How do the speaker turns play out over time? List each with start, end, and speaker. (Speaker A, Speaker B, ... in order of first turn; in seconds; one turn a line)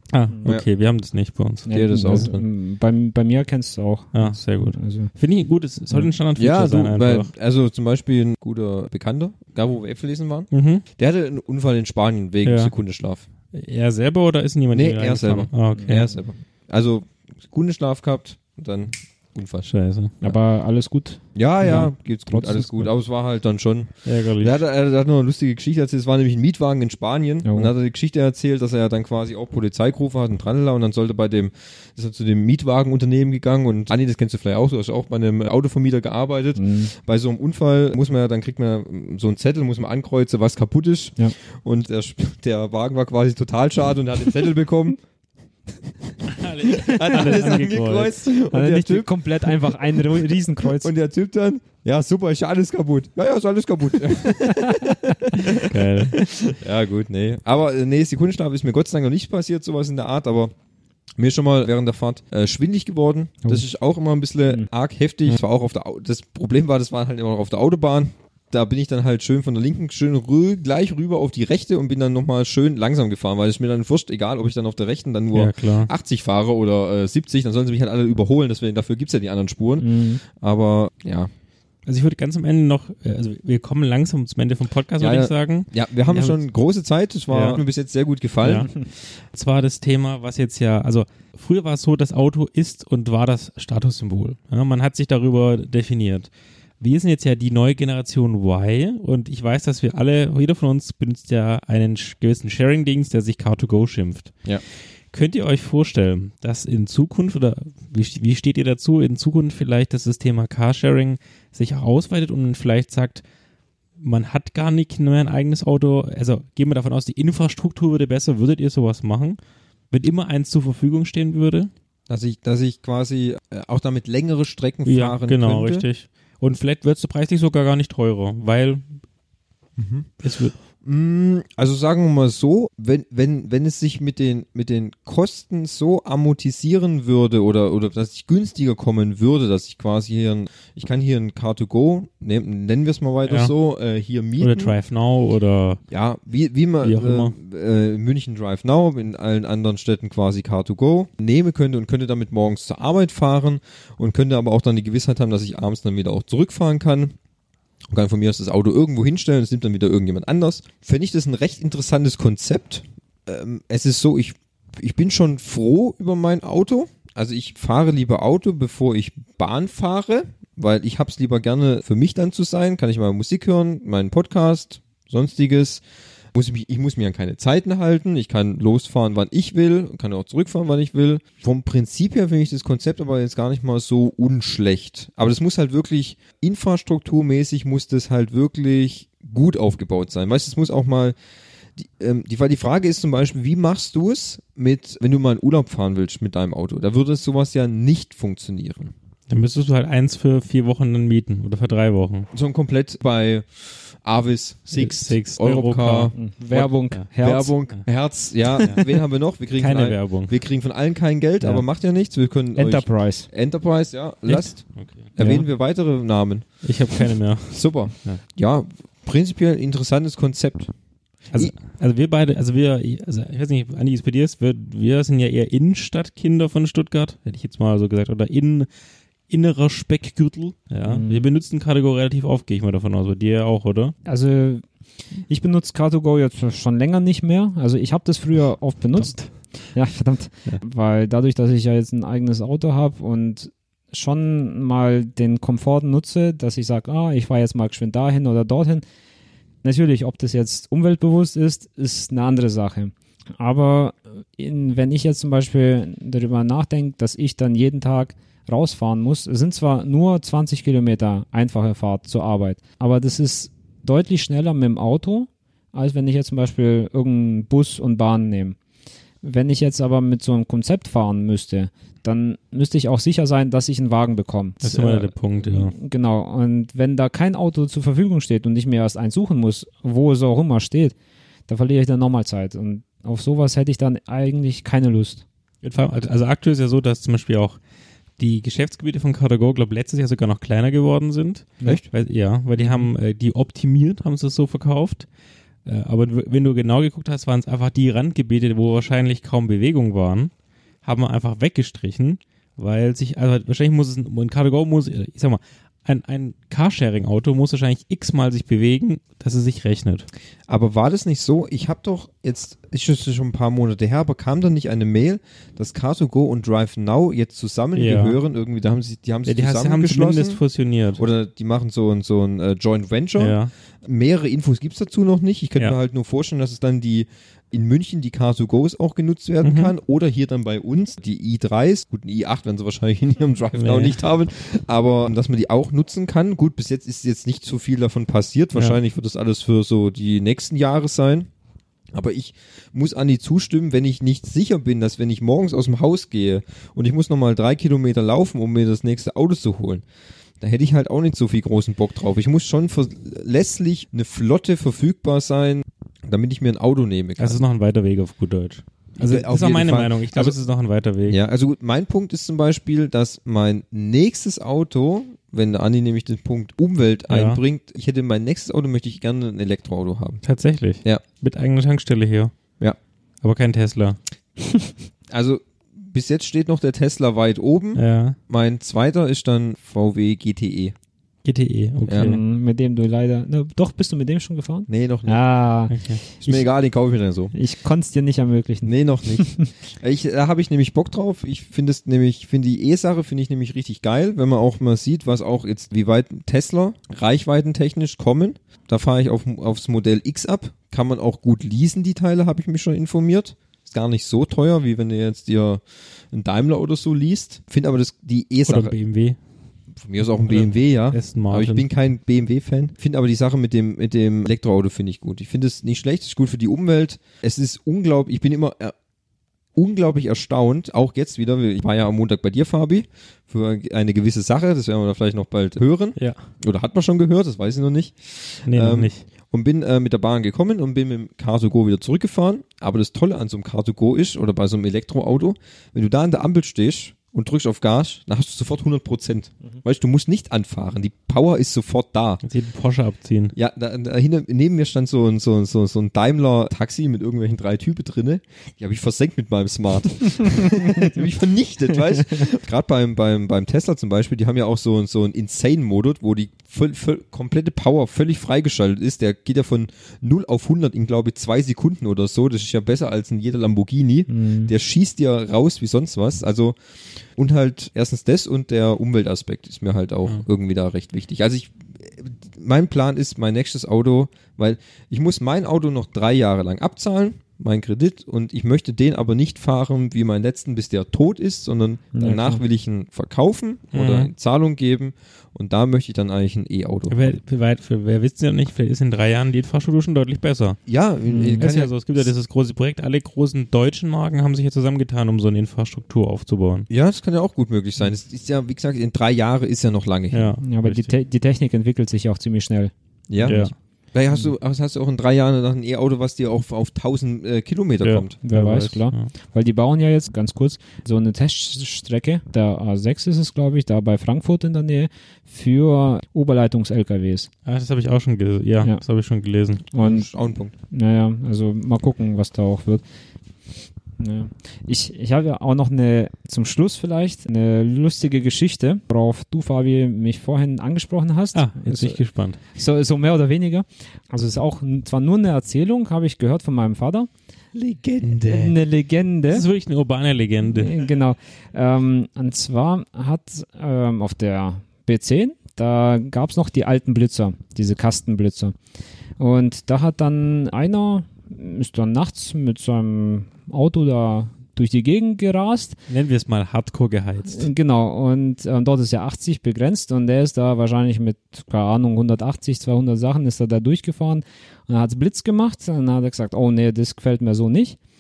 Speaker A: 0.1-2.3
Speaker B: 1.7-5.1
Speaker C: 1.7-2.4
Speaker A: 4.1-7.3
Speaker C: 6.3-13.2
Speaker A: 10.5-10.8
Speaker A: 12.4-12.7
Speaker A: 13.5-16.1
Speaker C: 14.7-19.7
Speaker A: 19.7-20.1
Speaker B: 20.2-22.9
Speaker C: 21.3-45.0
Speaker A: 24.0-24.6
Speaker B: 27.4-27.7
Speaker B: 36.6-36.9
Speaker C: 46.1-60.5
Speaker A: 46.3-48.3
Speaker B: 47.1-47.6
Speaker B: 48.5-50.9
Speaker B: 54.4-54.9
Speaker A: 55.4-56.2
Speaker C: 61.2-81.3
Speaker A: 75.3-75.9
Speaker B: 79.8-80.2
Speaker A: 81.8-86.4
Speaker C: 85.0-88.7
Speaker A: 87.3-87.6
Speaker A: 88.4-104.3
Speaker A: 105.1-113.2
Speaker A: 114.0-119.4
Speaker A: 119.9-121.7
Speaker C: 122.1-125.8
Speaker A: 124.8-128.9
Speaker C: 129.8-130.1
Speaker A: 130.2-130.5
Speaker C: 130.8-144.8
Speaker A: 143.3-143.5
Speaker A: 144.4-145.8
Speaker C: 145.9-157.1
Speaker A: 146.8-147.3
Speaker C: 157.9-175.8
Speaker C: 176.3-191.1
Speaker C: 191.8-198.9
Speaker A: 199.3-202.3
Speaker C: 202.3-216.4
Speaker A: 204.7-206.1
Speaker B: 206.1-207.6
Speaker A: 209.6-210.3
Speaker B: 212.6-213.3
Speaker A: 214.3-215.3
Speaker B: 215.2-215.4
Speaker A: 216.6-218.2
Speaker C: 217.5-220.7
Speaker A: 221.3-228.7
Speaker A: 229.3-233.9
Speaker B: 230.8-231.2
Speaker B: 234.1-234.6
Speaker B: 235.3-248.8
Speaker A: 238.9-239.3
Speaker B: 249.6-268.6
Speaker B: 269.2-280.9
Speaker A: 274.6-275.7
Speaker B: 281.5-285.2
Speaker A: 285.6-287.6
Speaker A: 288.2-295.1
Speaker B: 292.6-292.9
Speaker A: 295.6-300.3
Speaker A: 300.8-310.1
Speaker C: 310.5-320.4
Speaker A: 317.7-318.2
Speaker A: 319.2-321.0
Speaker C: 321.0-341.3
Speaker A: 323.2-323.5
Speaker A: 329.4-329.7
Speaker A: 333.6-334.0
Speaker C: 341.9-349.8
Speaker C: 350.4-357.4
Speaker A: 357.2-361.2
Speaker C: 359.0-360.4
Speaker C: 361.1-370.2
Speaker A: 367.1-367.4
Speaker A: 370.2-372.3
Speaker A: 373.2-374.0
Speaker C: 375.1-380.7
Speaker A: 377.7-378.2
Speaker A: 381.2-382.2
Speaker C: 381.9-382.1
Speaker B: 381.9-386.4
Speaker C: 384.7-385.2
Speaker A: 385.7-386.0
Speaker C: 386.2-387.3
Speaker B: 387.3-389.5
Speaker C: 388.6-408.7
Speaker A: 408.4-409.2
Speaker C: 409.7-418.7
Speaker A: 410.2-411.7
Speaker C: 419.5-442.2
Speaker A: 426.0-426.2
Speaker A: 428.5-429.1
Speaker A: 442.2-443.3
Speaker C: 443.3-466.6
Speaker B: 464.1-464.5
Speaker C: 467.1-487.1
Speaker B: 481.9-482.4
Speaker A: 483.7-484.1
Speaker A: 486.9-490.6
Speaker C: 490.7-492.1
Speaker B: 491.1-491.5
Speaker A: 491.4-496.7
Speaker C: 496.7-500.3
Speaker A: 500.1-500.9
Speaker B: 500.4-503.5
Speaker C: 503.1-508.2
Speaker A: 503.2-503.5
Speaker A: 507.8-509.1
Speaker B: 508.2-517.3
Speaker A: 517.5-519.6
Speaker B: 519.7-520.1
Speaker C: 519.7-520.5
Speaker B: 520.7-522.8
Speaker B: 524.0-532.0
Speaker A: 531.3-532.4
Speaker B: 532.5-537.1
Speaker C: 537.5-538.6
Speaker B: 538.2-539.5
Speaker A: 539.3-540.7
Speaker B: 540.4-548.5
Speaker B: 549.2-555.8
Speaker A: 555.9-557.5
Speaker B: 557.3-567.8